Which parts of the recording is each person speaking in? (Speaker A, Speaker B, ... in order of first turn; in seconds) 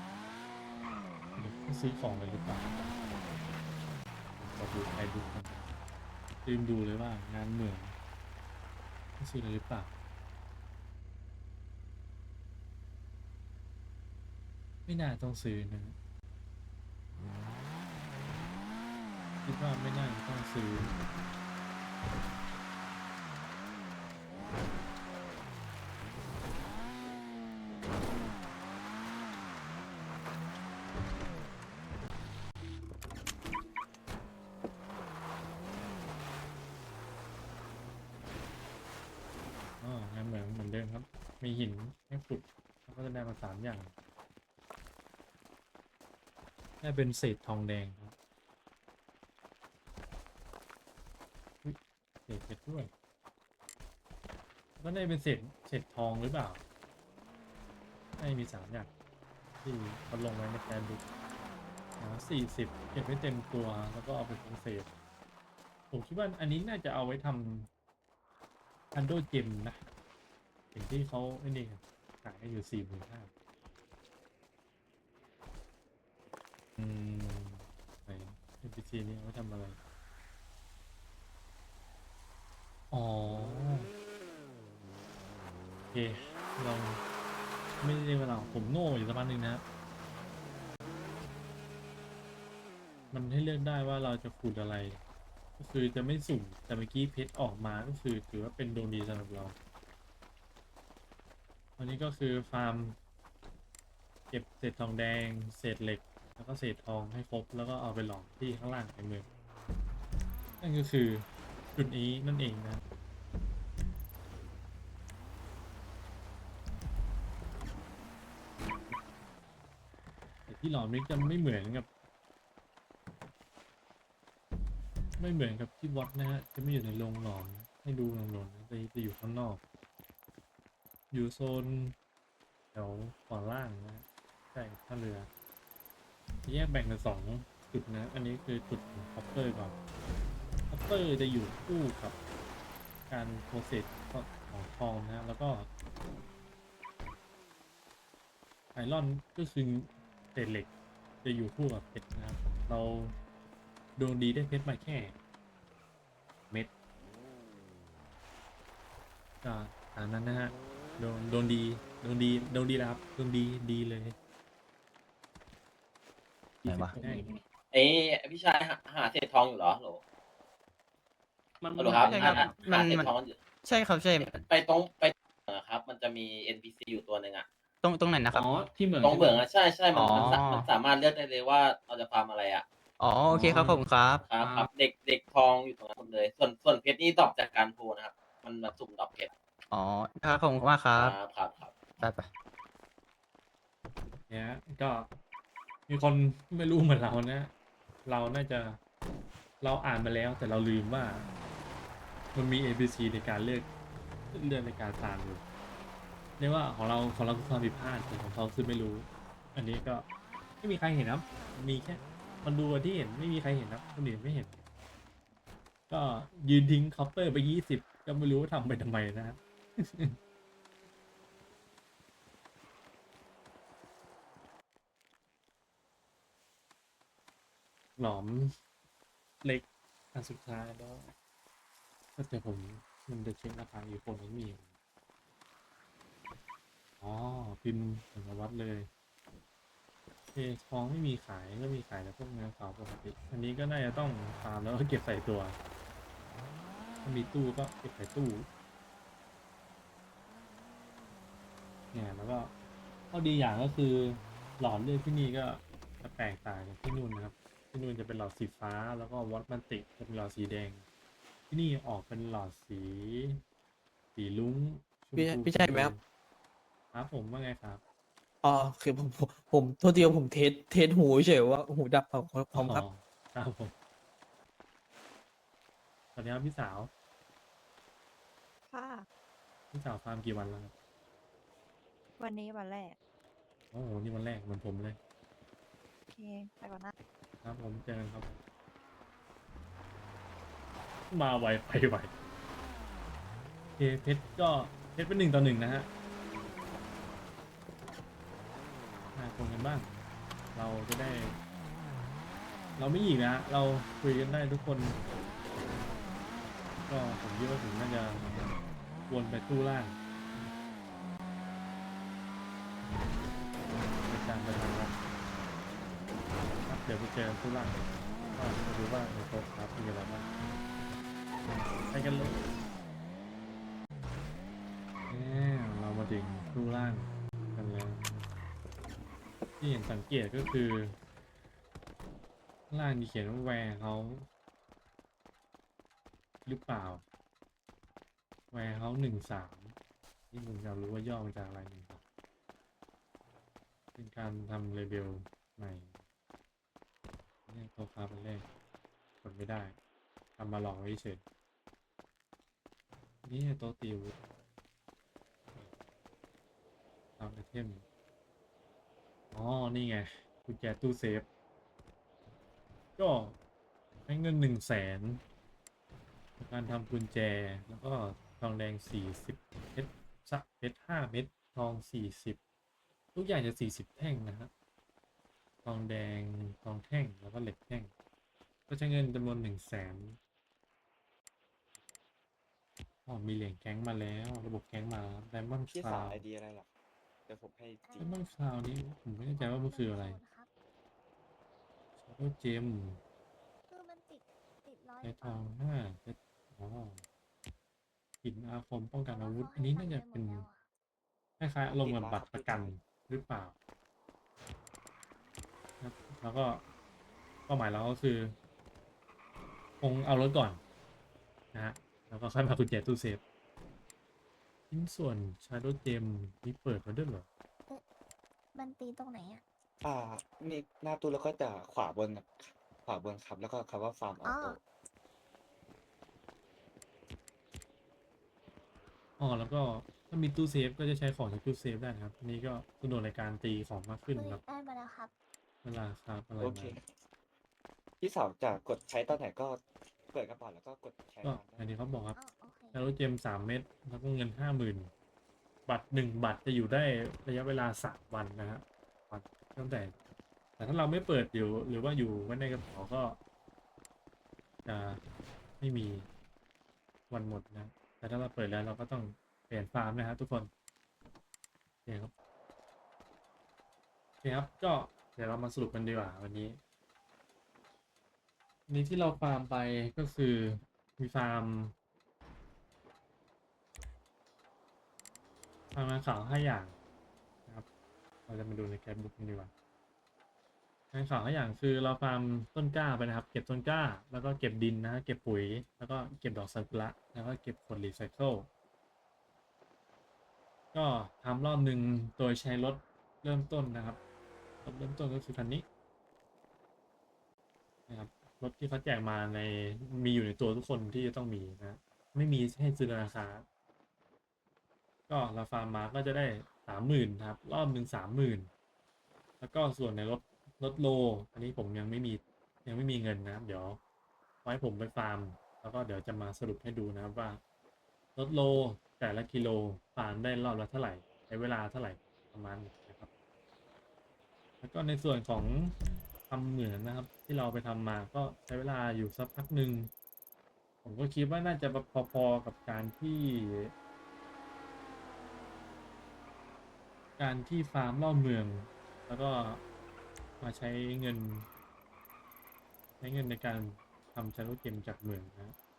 Speaker A: 1.4-2.8, 4.4-5.7, 6.4-7.9, 9.2-9.9, 14.8-16.0, 19.4-21.0, 39.8-43.9, 46.8-48.1, 51.6-52.9, 54.8-56.6, 58.2-58.9, 59.6-61.0, 62.0-64.9, 65.9-67.7, 68.9-69.8, 70.7-73.3, 76.8-79.8, 82.9-83.9, 85.9-87.0, 87.8-89.6, 93.1-95.0, 95.6-99.5, 101.8-103.0, 104.3-109.3, 110.6-112.8, 120.5-121.9, 125.2-129.6, 131.1-131.9, 132.7-135.3, 136.4-139.8, 140.7-142.2, 143.1-145.7, 148.7-150.7, 151.2-153.1, 154.0-155.2, 159.4-164.1, 166.7-167.3, 194.3-195.2, 195.9-197.5, 198.1-198.8, 199.6-201.3, 202.3-203.7, 204.3-205.4, 206.4-210.1, 210.6-214.5, 215.9-220.2, 228.0-228.5, 229.4-231.1, 232.2-234.7, 237.0-238.9, 240.3-245.6, 247.0-248.5, 251.9-252.5, 253.1-260.9, 261.5-263.4, 264.1-266.0, 266.9-267.8, 272.5-273.7, 276.1-276.9, 279.7-280.7, 283.7-285.0, 287.4-288.4, 291.1-292.1, 293.8-295.9, 299.1-299.9, 300.5-301.4, 302.8-305.0, 306.9-308.5, 309.1-310.4, 314.0-314.9, 316.6-320.4, 321.4-322.5, 325.1-328.2, 329.6-330.9, 332.7-334.3, 336.4-337.0, 338.5-339.7, 340.3-342.0, 343.9-345.9, 347.5-348.5, 349.2-349.8, 350.4-351.2, 353.2-354.1, 357.2-357.8, 359.3-361.2, 363.0-363.4, 364.1-365.2, 366.4-372.4, 373.1-374.5, 375.6-377.9, 378.7-380.2, 383.1-386.2, 388.0-390.2, 392.0-393.0, 395.0-397.0, 398.2-400.4, 401.4-403.6, 405.8-406.6, 407.5-408.4, 409.8-410.6, 411.5-413.2, 414.7-417.3, 429.2-434.4, 435.6-436.7, 441.2-442.2, 442.7-444.9, 445.7-449.9, 450.6-453.2, 454.6-455.0, 455.6-456.1, 457.1-460.5, 461.9-462.1, 464.2-466.6, 468.7-471.7, 475.7-476.8, 478.3-479.5, 480.9-488.5, 490.7-494.0, 494.6-495.6, 497.9-503.4, 505.1-508.5, 509.4-513.8, 514.4-517.4, 518.1-523.1, 524.6-525.7, 526.3-529.9, 530.8-533.7, 537.2-539.6, 540.4-541.5, 543.0-545.5
Speaker B: 166.6-167.0, 172.0-174.4, 177.8-178.6, 179.9-180.7, 183.0-184.3, 189.7-191.2, 192.0-192.3
Speaker C: 167.7-170.0, 171.8-173.4, 174.2-177.5, 179.0-182.7, 184.3-189.3, 190.9-191.8
Speaker D: 171.6-172.5, 178.4-179.4
Speaker E: 265.1-265.9, 268.4-272.8
Speaker F: 278.7-279.1, 282.2-283.0, 286.1-286.9
Speaker G: 385.7-386.7, 387.3-388.2, 401.6-402.7, 419.8-424.6, 436.4-436.8, 438.0-441.7
Speaker H: 387.8-388.3, 389.3-390.5, 393.7-395.5, 399.1-400.6, 418.5-419.4, 424.2-424.6, 434.1-435.1, 442.1-442.8